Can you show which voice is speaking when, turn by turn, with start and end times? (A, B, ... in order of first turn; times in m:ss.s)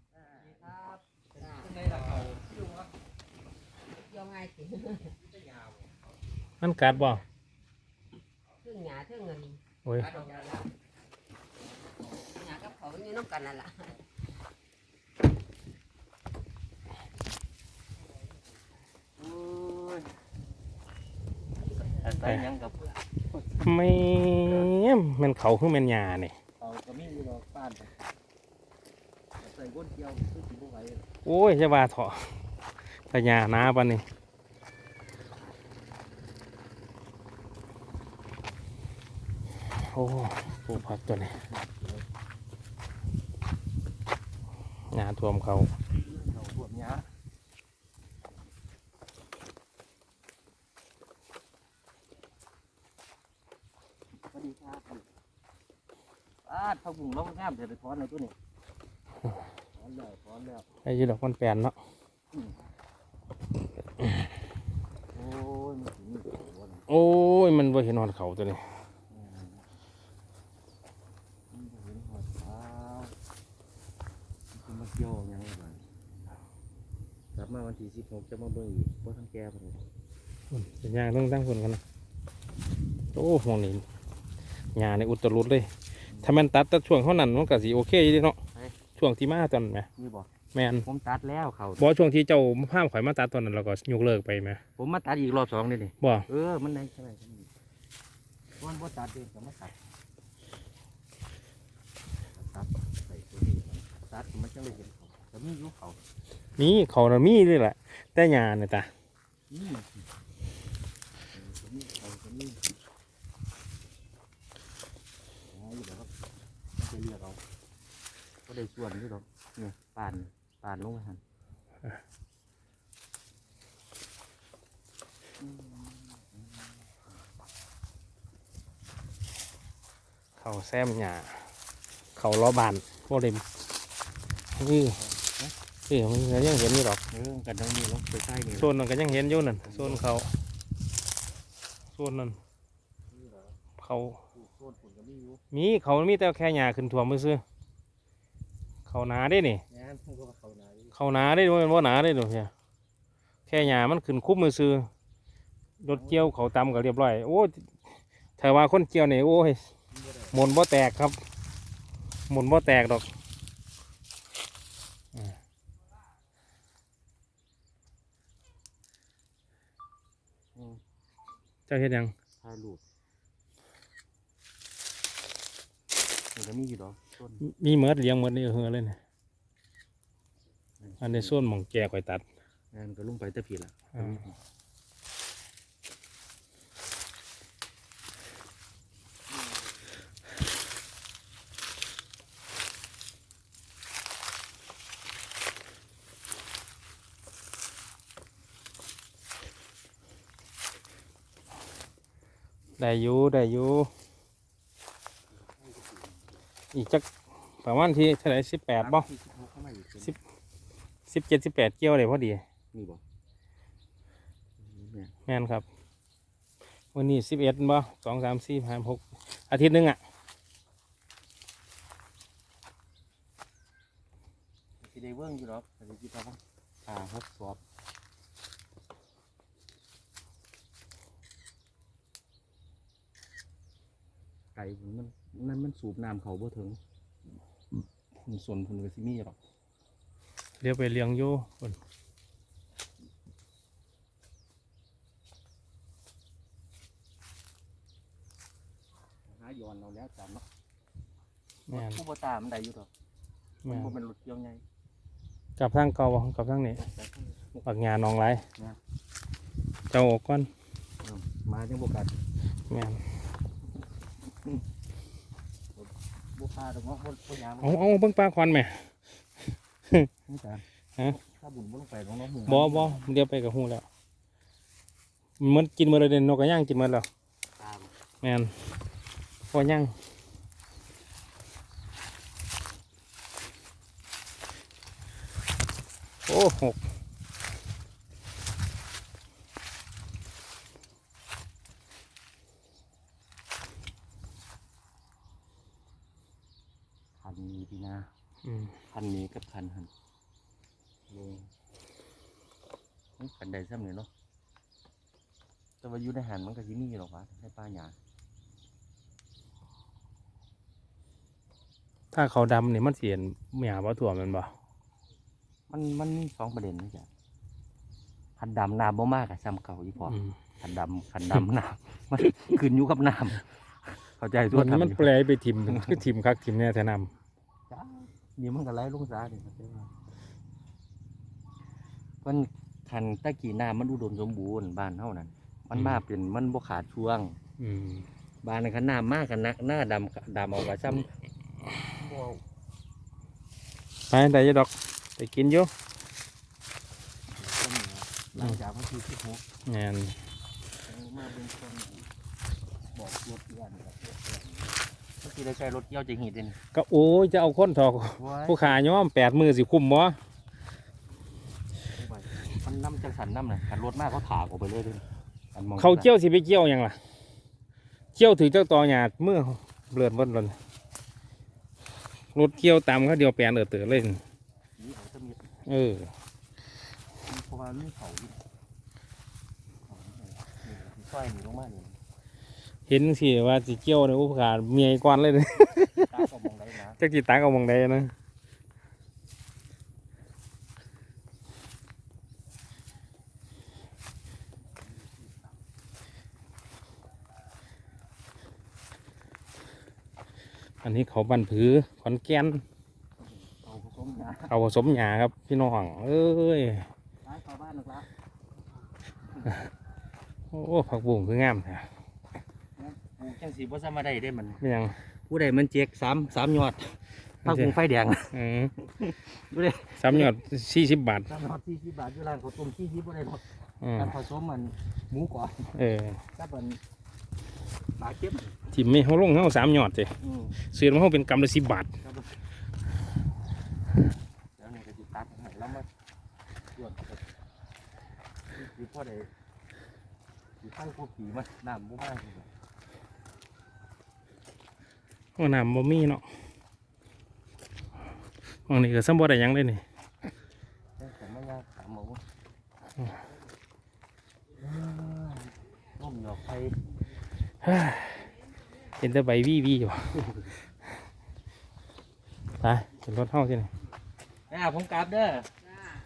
0:00.2-0:00.6 A
0:00.5-0:01.9 B
0:01.7-0:02.7 A
0:03.9-0:05.2 B
0:06.6-0:07.2 C
0:08.6-0:10.7 B
0:09.8-0:10.2 C
0:12.1-0:14.0 B
0:19.2-0:20.1 A
0:21.8-0:22.9 A
0:23.5-0:26.3 C
0:26.6-0:28.0 A
0:29.4-0:31.1 A
0:31.2-0:32.3 C
0:33.1-0:34.0 C
0:39.8-0:41.3 C
0:40.7-0:42.0 A
0:44.9-0:45.7 C
0:45.9-0:47.1 A
0:54.3-0:55.1 A
0:56.4-0:58.3 A
0:59.8-1:00.7 A
1:00.8-1:01.8 C
1:05.1-1:06.9 A
1:06.9-1:08.6 C
1:09.1-1:09.6 A
1:11.5-1:13.2 A
1:14.5-1:15.8 A
1:17.4-1:19.8 A
1:20.5-1:21.8 C
1:23.1-1:23.8 C
1:24.8-1:25.7 C
1:26.1-1:26.4 A
1:26.2-1:28.4 C
1:29.0-1:29.9 C
1:30.0-1:30.3 A
1:30.5-1:30.9 C
1:30.8-1:31.9 A
1:31.8-1:34.6 C
1:34.8-1:37.5 A
1:38.6-1:39.8 A
1:42.4-1:46.0 A
1:46.6-1:48.9 C
1:49.5-1:50.0 A
1:51.3-1:52.6 A
1:55.5-1:56.1 A
1:56.8-1:57.4 A
1:58.5-2:01.2 A
2:05.4-2:06.9 A
2:10.4-2:11.5 C
2:12.2-2:13.4 C
2:14.6-2:15.0 C
2:15.0-2:15.5 A
2:15.9-2:17.0 C
2:17.1-2:18.8 A
2:18.6-2:20.3 C
2:19.6-2:20.1 A
2:22.0-2:22.4 C
2:23.1-2:23.6 A
2:23.8-2:24.2 C
2:24.3-2:25.4 A
2:25.5-2:27.4 C
2:28.9-2:29.6 C
2:29.7-2:31.0 A
2:30.9-2:32.5 C
2:33.5-2:34.9 C
2:35.8-2:37.8 C
2:35.9-2:36.3 A
2:38.4-2:39.7 C
2:39.9-2:40.4 A
2:40.3-2:41.2 C
2:42.3-2:43.1 C
2:50.6-2:50.8 A
2:51.7-2:52.1 C
2:52.4-2:52.8 A
2:56.4-2:57.4 A
2:57.4-2:59.0 C
3:00.8-3:01.4 A
3:01.0-3:02.2 C
3:02.7-3:04.4 A
3:04.0-3:04.2 C
3:22.8-3:23.9 C
3:25.4-3:26.3 A
3:26.7-3:27.1 C
3:27.6-3:29.1 C
3:28.8-3:30.2 A
3:31.1-3:32.4 C
3:32.7-3:33.0 A
3:34.6-3:35.1 A
3:35.3-3:35.6 C
3:37.0-3:40.0 C
3:44.8-3:47.6 A
3:54.6-3:56.8 A
3:57.7-3:59.4 A
4:00.6-4:01.8 C
4:09.3-4:10.4 A
4:11.7-4:12.0 C
4:11.7-4:12.9 A
4:13.6-4:13.9 C
4:13.7-4:14.6 A
4:15.6-4:16.8 C
4:16.8-4:17.7 A
4:17.6-4:18.4 C
4:19.9-4:20.5 C
4:21.0-4:22.1 A
4:22.7-4:23.0 C
4:25.8-4:27.9 A
4:27.6-4:28.9 C
4:30.3-4:33.1 A
4:32.5-4:33.9 C
4:35.4-4:37.1 C
4:37.6-4:37.9 A
4:38.2-4:38.5 C
4:39.5-4:39.9 C
4:46.3-4:46.8 C
4:57.2-4:58.1 A
4:58.4-4:58.8 C
4:58.9-4:59.9 A
5:01.1-5:01.5 A
5:03.2-5:04.1 A
5:05.8-5:08.0 A
5:12.1-5:14.5 C
5:15.7-5:17.1 A
5:18.4-5:25.1 A
5:24.5-5:27.1 C
5:27.7-5:29.9 A
5:32.2-5:37.4 A
5:35.7-5:36.0 C
5:37.6-5:38.1 C
5:38.4-5:41.1 A
5:41.9-5:42.4 A
5:44.1-5:45.7 C
5:47.4-5:49.4 A
5:49.7-5:50.2 C
5:50.8-5:52.1 A
5:52.9-5:56.6 A
5:56.7-6:00.2 C
5:58.2-5:58.8 A
6:02.0-6:06.1 A
6:05.8-6:07.0 C
6:08.2-6:10.6 C
6:12.4-6:14.2 C
6:14.8-6:15.5 A
6:15.7-6:16.1 C
6:17.3-6:18.4 A
6:19.9-6:22.0 A
6:22.9-6:26.1 C
6:26.0-6:27.0 A
6:27.0-6:28.1 C
6:34.8-6:35.5 A
6:40.8-6:42.6 C
6:43.2-6:44.5 A
6:44.5-6:46.9 C
6:47.2-6:48.1 A
6:50.5-6:51.9 C
6:52.8-6:54.6 A
6:54.6-6:55.0 C
6:55.3-7:00.4 A
6:57.4-6:57.7 C
6:58.3-6:58.7 C
7:00.0-7:01.3 C
7:01.2-7:05.8 A
7:03.8-7:04.2 C
7:05.8-7:06.2 C
7:06.4-7:06.8 A
7:08.0-7:08.5 A
7:08.7-7:11.9 C
7:10.2-7:10.6 A
7:12.0-7:12.3 A
7:14.6-7:15.9 A
7:16.7-7:17.2 A
7:18.5-7:19.3 A
7:20.6-7:22.5 A
7:25.4-7:26.2 C
7:28.7-7:29.8 C
7:31.0-7:32.2 A
7:34.6-7:36.8 A
7:37.6-7:40.5 C
7:42.6-7:43.7 C
7:44.5-7:45.5 A